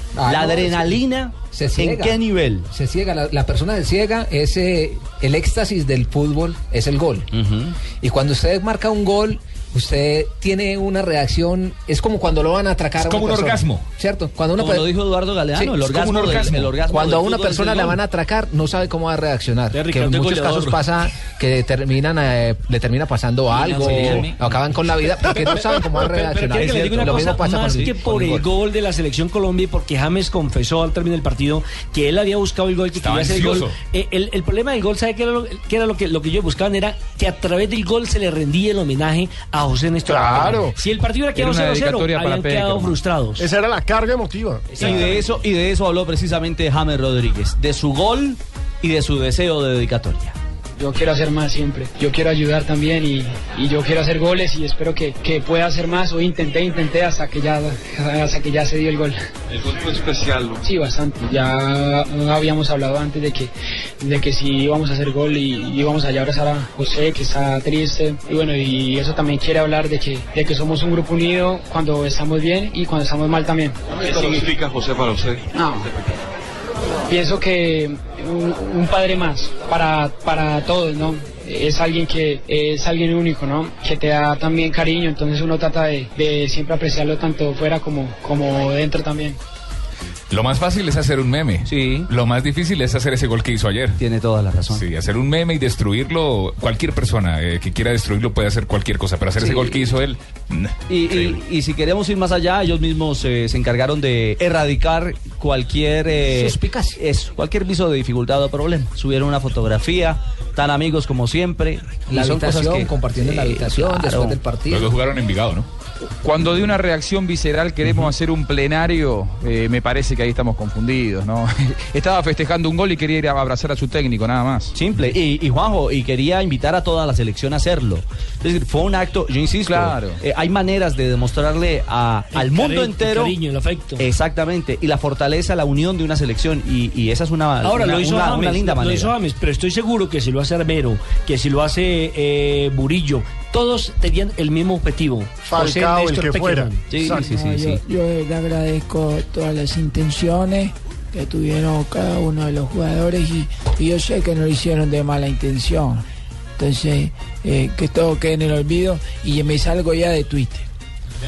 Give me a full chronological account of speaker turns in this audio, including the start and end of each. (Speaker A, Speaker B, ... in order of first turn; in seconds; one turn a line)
Speaker A: 0.1-1.0
Speaker B: 0.2-2.7
Speaker A: 1.5-2.2
Speaker A: 2.7-7.3
Speaker B: 7.3-7.7
Speaker A: 8.0-14.9
Speaker C: 13.0-13.8
Speaker B: 14.6-18.0
Speaker C: 15.7-16.7
Speaker A: 16.9-27.9
Speaker D: 19.7-20.9
Speaker B: 23.7-24.3
Speaker D: 25.3-43.5
Speaker B: 26.6-28.4
Speaker C: 32.9-33.8
Speaker E: 40.0-40.7
Speaker F: 41.3-43.0
Speaker E: 43.4-45.1
Speaker B: 44.8-50.3
Speaker D: 44.8-45.2
Speaker G: 50.8-59.2
Speaker H: 59.5-60.6
Speaker G: 60.6-74.5
Speaker H: 73.9-76.1
Speaker G: 77.1-89.4
Speaker C: 90.3-94.0
Speaker B: 91.6-92.1
Speaker B: 94.0-94.9
Speaker C: 94.7-101.4
Speaker B: 99.4-99.9
Speaker B: 100.9-114.4
Speaker A: 106.4-107.0
Speaker A: 112.1-114.9
Speaker C: 114.7-115.7
Speaker F: 116.2-124.7
Speaker B: 124.7-133.3
Speaker F: 129.7-130.2
Speaker D: 132.3-134.0
Speaker B: 134.0-139.1
Speaker D: 137.6-146.8
Speaker E: 145.5-147.3
Speaker B: 146.9-147.8
Speaker I: 147.2-156.0
Speaker I: 156.6-160.7